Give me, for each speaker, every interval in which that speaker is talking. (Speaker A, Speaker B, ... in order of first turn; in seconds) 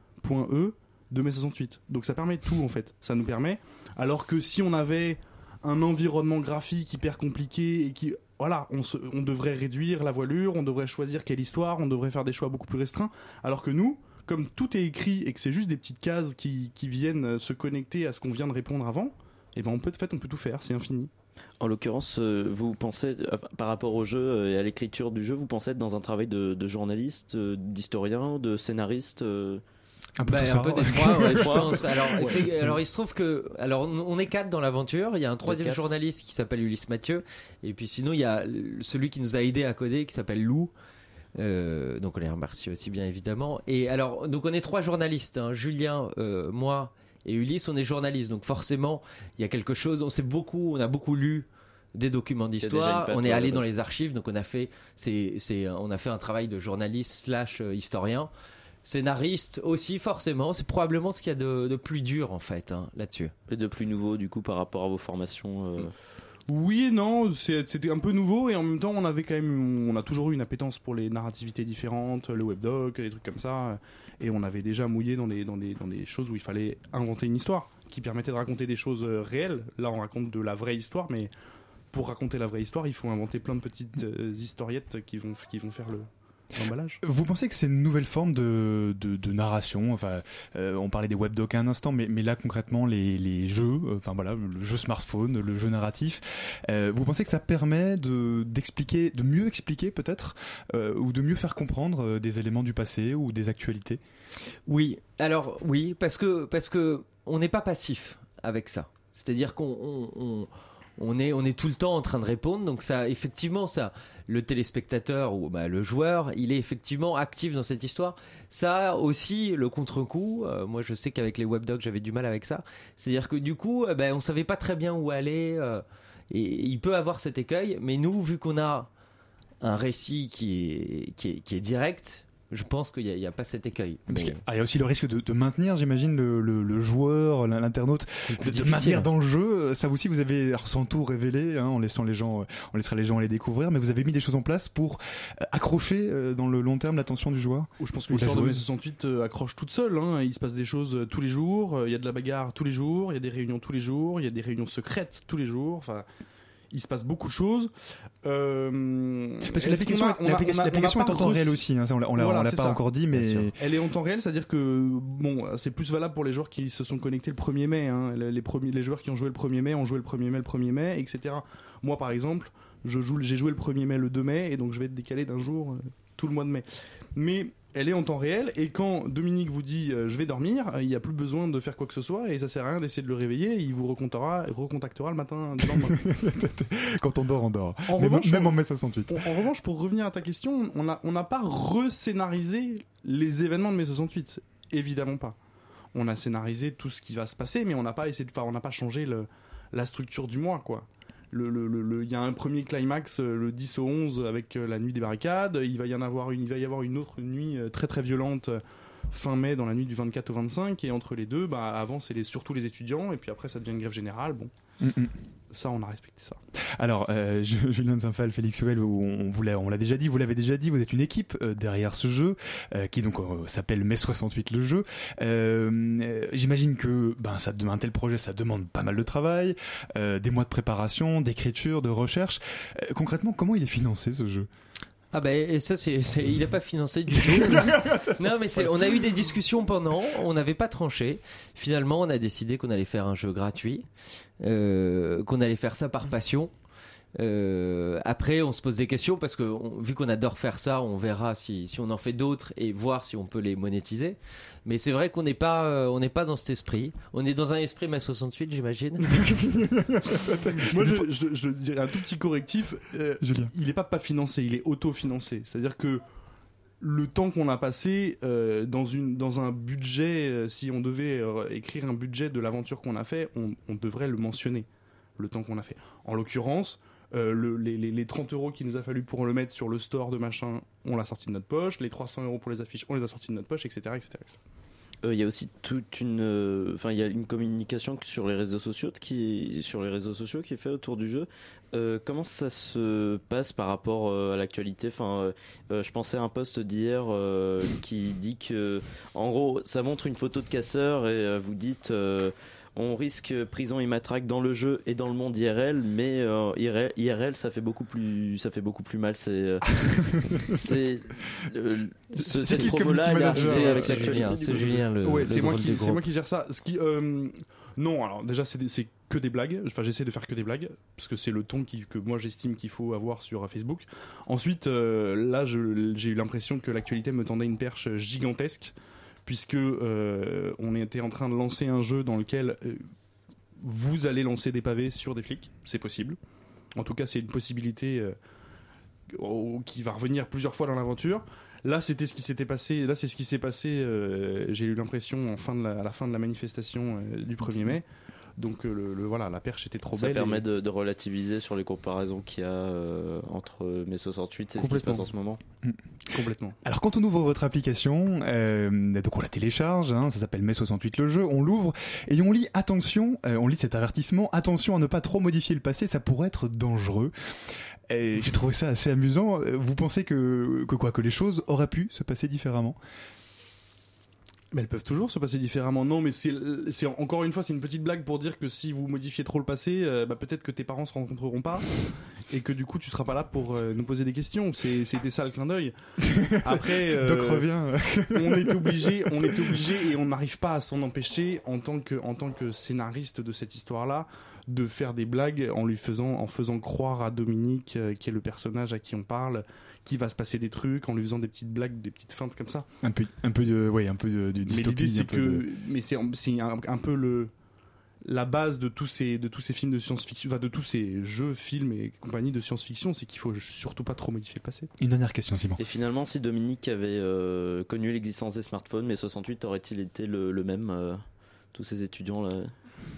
Speaker A: 0.2-21.1, 66.5-81.3, 81.9-87.0, 147.8-156.1, 156.7-157.7, 158.2-161.6, 162.2-186.0, 187.9-188.6, 189.1-195.4, 195.9-214.5, 215.5-216.4, 260.6-266.0, 266.8-284.4, 314.5-328.7, 329.2-332.8, 333.6-336.2, 336.8-338.1, 339.1-347.9, 348.4-350.4, 354.6-355.0, 356.1-356.6, 374.5-381.7, 382.3-385.7, 386.4-387.5, 388.1-402.7, 404.5-407.3, 408.0-414.7
Speaker B: 21.6-29.6, 31.2-32.4, 35.4-35.8, 52.6-53.7, 63.5-65.9, 285.0-314.7, 349.9-355.4, 415.6-422.5
Speaker C: 30.2-32.7, 87.0-104.0, 134.1-148.6, 159.5-163.5, 185.6-189.3, 214.8-215.1, 216.8-234.5, 237.1-239.3, 259.1-261.1, 263.2-263.5, 310.3-310.7, 312.1-314.2, 356.6-367.1, 367.9-372.8, 386.1-389.7, 402.8-405.4, 414.8-415.6
Speaker D: 30.3-40.7, 41.4-58.3, 58.8-63.3, 104.7-128.9, 129.6-134.4, 138.2-139.1, 235.1-243.8, 244.4-246.5, 247.2-259.0, 312.4-316.0